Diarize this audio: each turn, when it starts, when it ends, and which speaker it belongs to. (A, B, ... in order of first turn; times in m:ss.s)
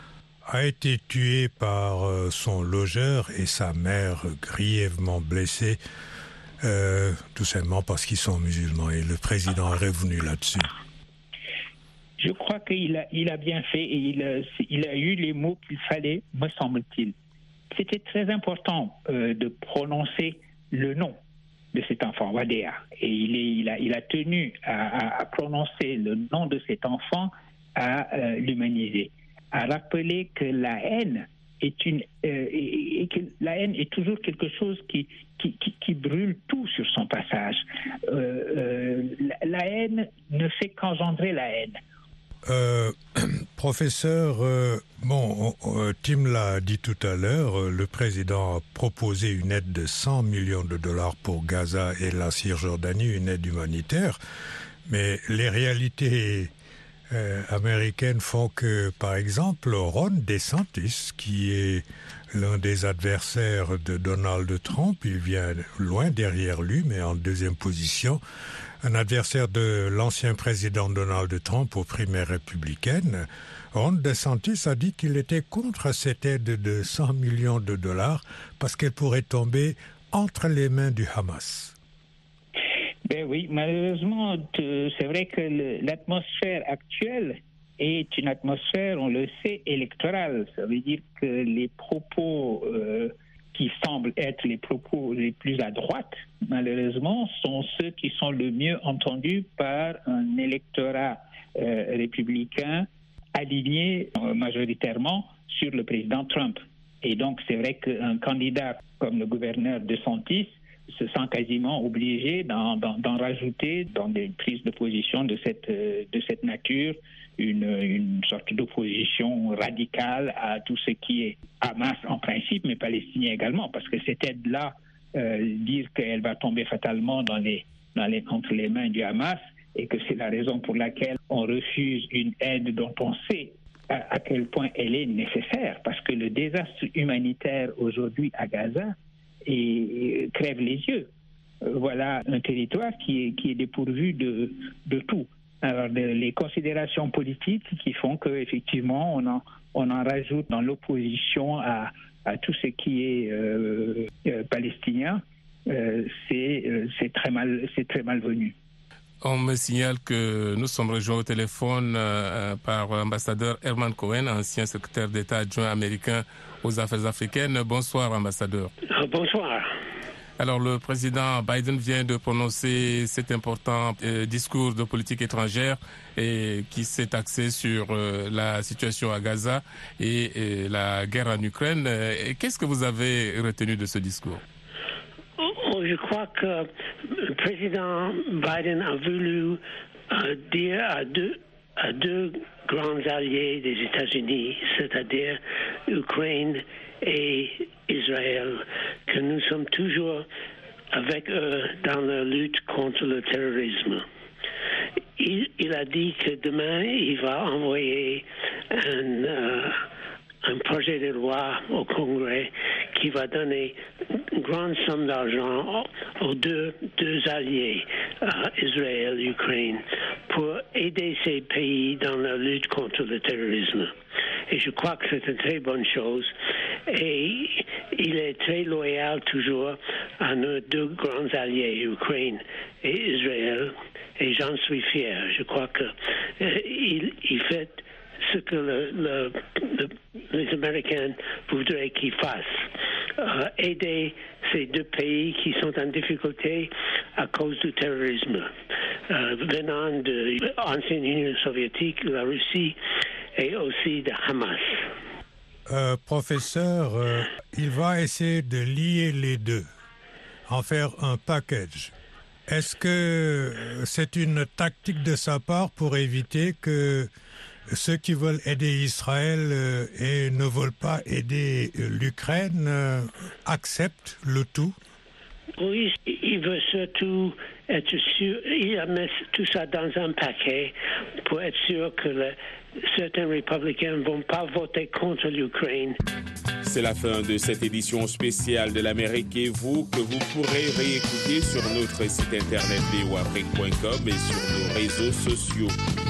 0:00.4-0:05.8 A
0:06.6-0:10.7 A
0:12.2-0:17.1 B
0:17.7-0:21.2 B
0:21.7-0:41.8 B
0:42.4-0:54.2 A
0:54.9-0:56.5 A
0:57.1-1:08.2 A
1:08.8-1:21.7 A
1:23.0-2:21.1 B
2:21.6-2:38.5 B
2:39.2-2:48.7 C
2:48.9-2:49.7 D
2:50.4-3:04.4 C
3:05.4-3:20.2 D
3:20.9-3:24.0 D
3:25.2-3:29.8 D
3:30.4-3:43.9 D
3:44.5-3:46.3 D
3:46.8-4:08.5 D
4:09.1-4:12.8 D
4:13.3-4:14.8 D
4:15.7-4:19.6 A
4:20.5-4:21.9 A
4:22.5-4:27.1 A
4:27.7-4:34.7 A
4:35.6-4:46.0 D
4:46.6-4:55.8 E